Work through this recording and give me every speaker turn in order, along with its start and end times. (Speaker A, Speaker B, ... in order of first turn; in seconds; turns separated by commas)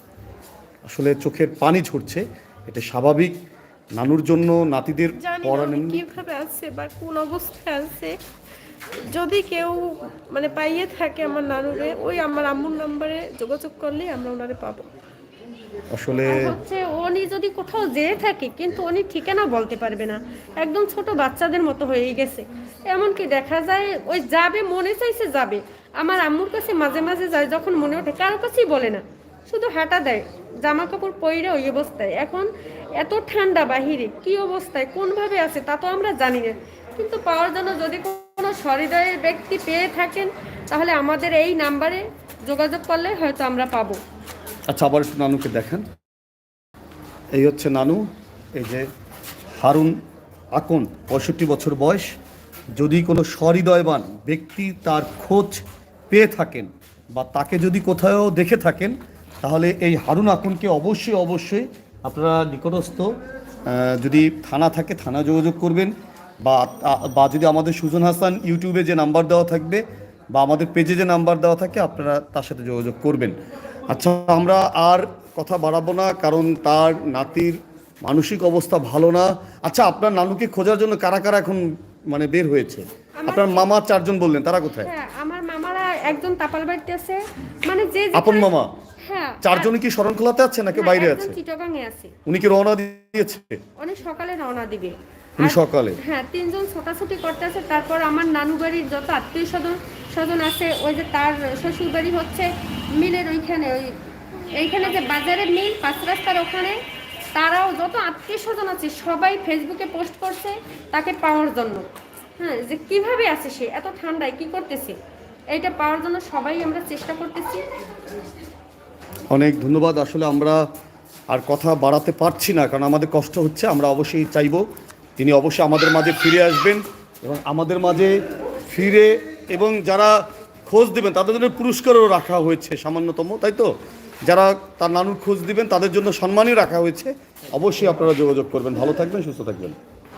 Speaker A: 0.9-3.3, Speaker A: 4.0-6.0, Speaker B: 5.2-8.2, Speaker B: 9.1-14.9, Speaker A: 15.9-16.6, Speaker C: 16.3-44.0, Speaker A: 44.7-45.9, Speaker A: 47.4-48.0, Speaker A: 48.6-48.9, Speaker A: 49.6-50.0, Speaker A: 50.5-52.1, Speaker A: 52.8-63.1, Speaker A: 63.7-73.4, Speaker A: 73.9-84.9, Speaker C: 83.2-83.7, Speaker C: 84.7-88.5, Speaker A: 88.1-88.7, Speaker C: 89.0-89.7, Speaker A: 89.4-91.4, Speaker C: 90.7-92.1, Speaker A: 92.3-93.6, Speaker C: 93.8-106.8, Speaker A: 95.4-96.0, Speaker C: 107.3-115.0, Speaker C: 115.5-117.7, Speaker A: 119.3-120.6, Speaker A: 121.3-124.6, Speaker A: 125.2-128.2, Speaker A: 128.7-133.7, Speaker A: 134.3-139.8